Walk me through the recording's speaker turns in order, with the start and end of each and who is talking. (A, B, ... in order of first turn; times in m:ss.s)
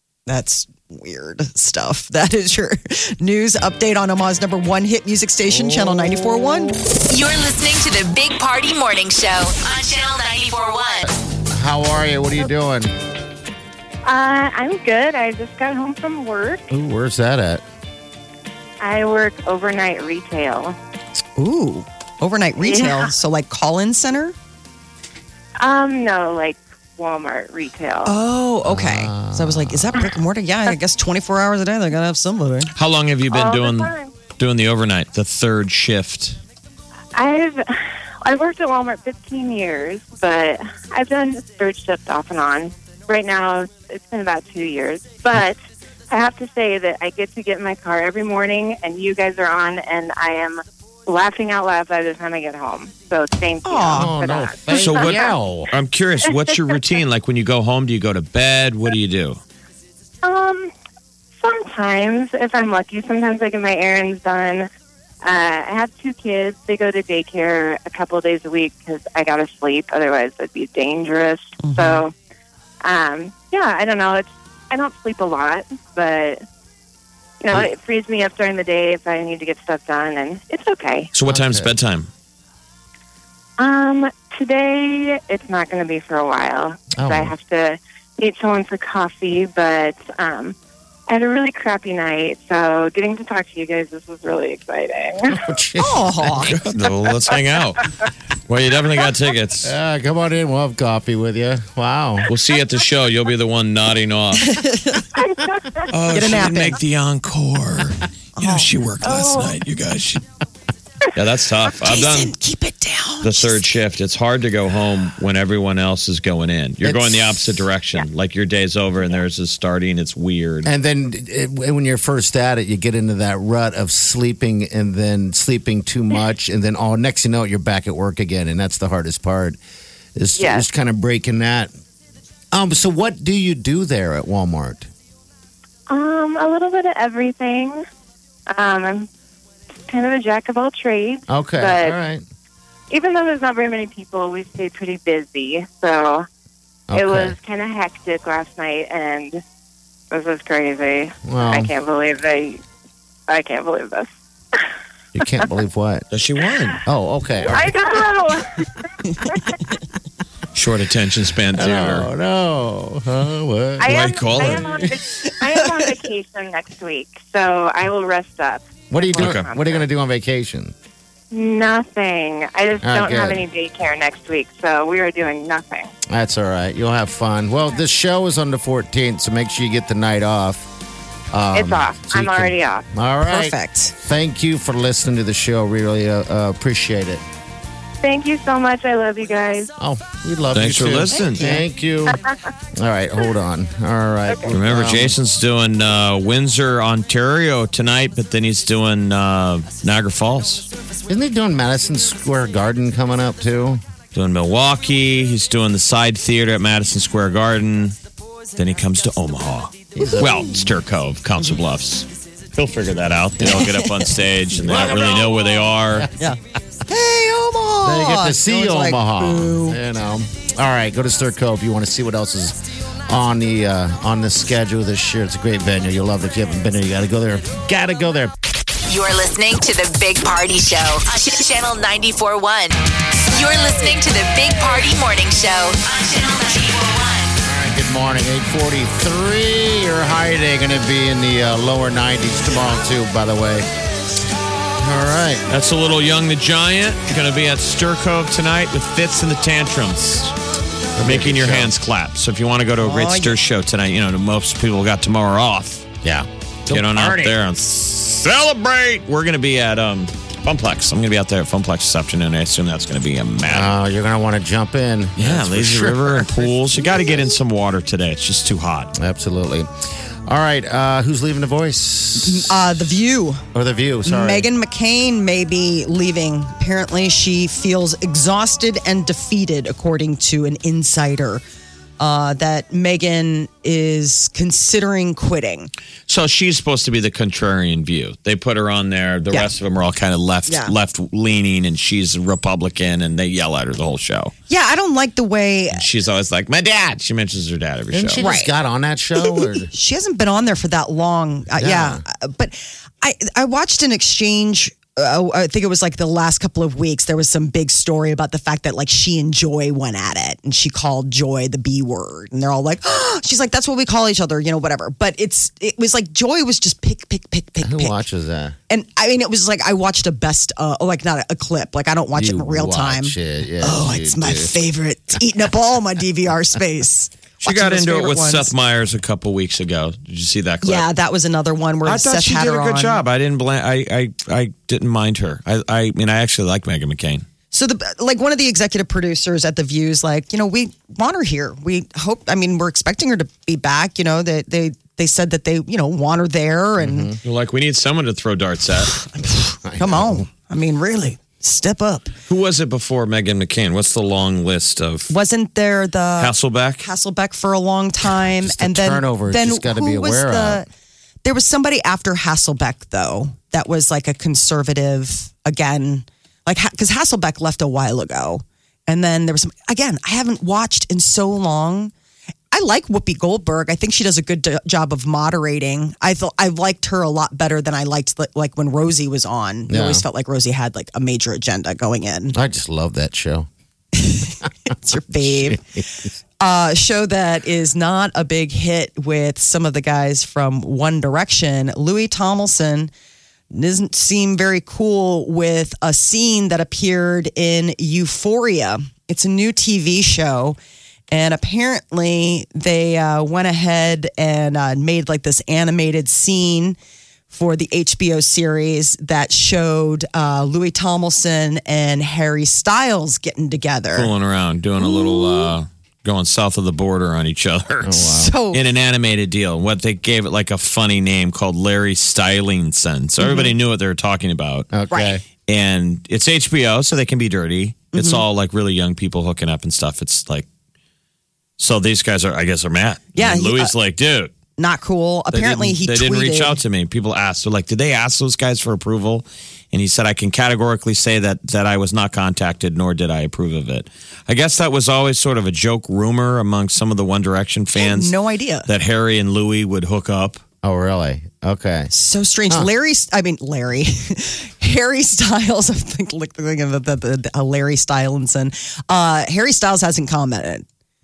0:00.3-0:06.8 A
0:05.5-0:06.2 B
0:07.0-0:11.1 C
0:11.1-0:12.9 B
0:14.0-0:16.7 D
0:16.7-0:17.6 B
0:18.8-0:20.8 D
0:21.4-0:24.4 A
0:22.6-0:23.1 D
0:25.6-0:28.2 D
0:28.0-0:32.7 A
0:28.6-0:30.1 B
0:32.8-0:36.4 E
0:33.3-0:34.1 D
0:37.2-0:45.6 D
0:46.1-0:55.3 D
0:53.6-0:54.2 A
0:53.9-0:55.7 B
0:54.7-0:59.4 E
0:56.5-0:56.7 D
1:00.2-1:00.7 D
1:01.4-1:04.7 D
1:05.2-1:12.1 D
1:11.6-1:12.0 A
1:12.8-1:16.4 D
1:17.4-1:21.1 D
1:21.1-1:22.1 E
1:21.3-1:21.7 B
1:23.6-1:30.6 D
1:27.0-1:27.4 B
1:31.1-1:35.5 D
1:35.3-1:36.6 B
1:35.8-1:36.6 A
1:36.4-1:37.9 E
1:38.5-1:39.7 E
1:39.6-1:42.3 B
1:42.3-1:44.6 E
1:44.4-1:45.1 A
1:45.2-1:45.9 D
1:45.9-1:50.2 E
1:46.1-1:46.8 A
1:48.4-1:48.7 A
1:49.0-1:49.6 D
1:51.2-1:52.3 E
1:51.7-1:53.6 A
1:53.2-2:00.7 E
1:56.8-1:57.6 B
2:00.6-2:09.6 B
2:10.2-2:11.7 B
2:10.4-2:10.7 D
2:12.5-2:14.9 B
2:15.9-2:17.8 D
2:18.5-2:19.1 D
2:19.9-2:22.0 D
2:21.3-2:22.2 B
2:22.9-2:26.3 D
2:26.9-2:27.4 B
2:26.9-2:29.4 D
2:30.1-2:32.6 D
2:31.3-2:31.7 B
2:33.3-2:34.6 D
2:35.2-2:36.1 B
2:36.1-2:36.8 E
2:36.9-2:37.8 B
2:37.5-2:39.6 D
2:40.5-2:42.1 E
2:41.5-2:45.0 B
2:43.8-2:49.9 D
2:43.9-2:44.7 E
2:48.9-2:50.7 B
2:49.2-2:49.5 E
2:51.3-2:55.9 D
2:52.8-2:53.4 B
2:56.1-3:00.7 B
3:01.3-3:07.2 B
3:01.5-3:02.9 D
3:03.2-3:03.9 A
3:08.0-3:09.7 D
3:09.8-3:12.2 B
3:10.5-3:11.6 E
3:12.7-3:15.2 B
3:14.5-3:20.7 E
3:21.1-3:23.8 B
3:24.1-3:28.0 E
3:28.6-3:36.1 E
3:30.0-3:30.5 B
3:33.4-3:33.7 B
3:33.4-3:33.9 A
3:34.6-3:36.1 B
3:36.2-3:39.8 A
3:37.8-3:48.3 B
3:48.9-3:57.4 C
3:57.4-4:03.7 B
4:04.8-4:05.5 B
4:05.5-4:10.3 E
4:11.0-4:11.8 B
4:11.0-4:15.9 E
4:12.8-4:13.4 A
4:16.0-4:17.4 B
4:16.7-4:23.8 E
4:23.5-4:26.7 B
4:25.2-4:28.9 E
4:28.9-4:29.7 B
4:30.3-4:32.5 B
4:32.2-4:33.4 A
4:33.5-4:34.5 B
4:34.0-4:41.4 A
4:42.0-4:45.7 A
4:46.1-4:54.3 E
4:50.5-4:50.7 A
4:54.5-4:55.8 A
4:55.7-4:58.2 E
4:57.9-4:59.7 B
4:58.2-4:58.5 A
4:59.2-5:18.0 A
5:01.6-5:02.0 B
5:17.6-5:18.6 B
5:18.7-5:28.5 A
5:22.2-5:24.6 B
5:27.4-5:30.9 E
5:30.6-5:33.0 A
5:31.8-5:37.2 E
5:37.5-5:47.1 A
5:46.8-5:47.2 B
5:47.2-5:49.0 E
5:49.0-5:52.1 A
5:49.6-5:50.3 B
5:52.3-5:55.1 E
5:55.1-6:00.7 A
5:56.2-5:56.9 E
5:58.1-6:00.6 B
6:01.2-6:11.9 A
6:12.5-6:22.4 A
6:19.7-6:20.0 B
6:22.3-6:23.5 B
6:24.0-6:25.6 A
6:25.1-6:25.8 B
6:26.4-6:32.9 A
6:33.5-6:40.6 A
6:41.1-6:46.8 A
6:47.3-6:54.1 A
6:54.0-7:04.7 E
6:54.8-6:55.5 A
6:57.8-6:58.4 B
6:58.0-6:58.6 A
7:03.2-7:03.5 A
7:04.7-7:05.2 B
7:04.9-7:05.2 A
7:05.5-7:10.5 E
7:07.9-7:08.2 A
7:11.6-7:14.3 E
7:13.2-7:13.7 A
7:14.6-7:16.6 A
7:15.3-7:28.1 E
7:27.8-7:28.7 A
7:28.7-7:30.4 E
7:30.6-7:31.9 B
7:31.9-7:40.6 A